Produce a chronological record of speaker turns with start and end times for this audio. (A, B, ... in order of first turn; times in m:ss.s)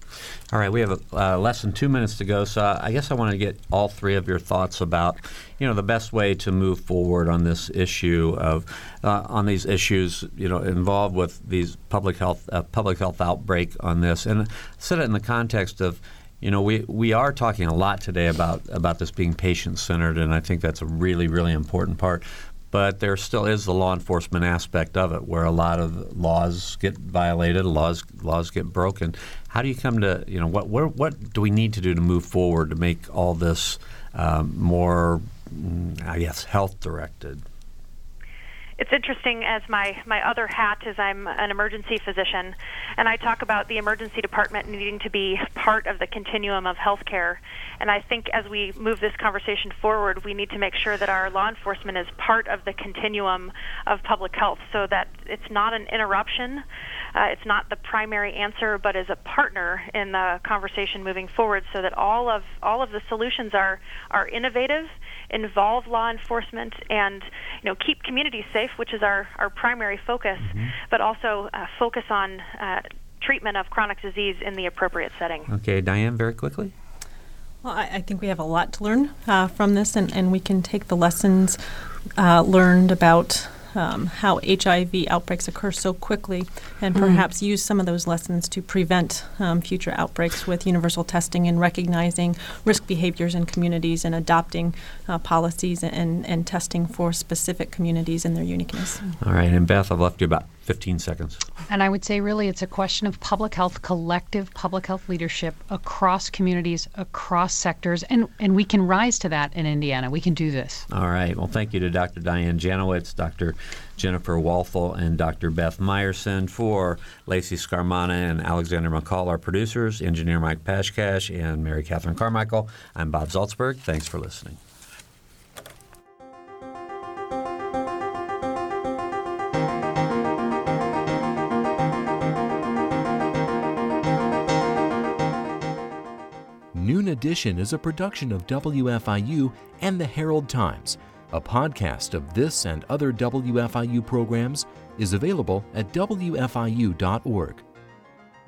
0:00.5-0:37.4 A
0:38.8-0:56.6 B
0:57.2-1:15.5 B
1:10.5-1:10.7 A
1:15.5-1:16.7 A
1:17.6-1:21.6 C
1:22.2-1:39.0 C
1:39.2-1:41.4 A
1:41.7-1:50.9 D
1:50.9-2:04.6 A
2:16.7-2:27.6 E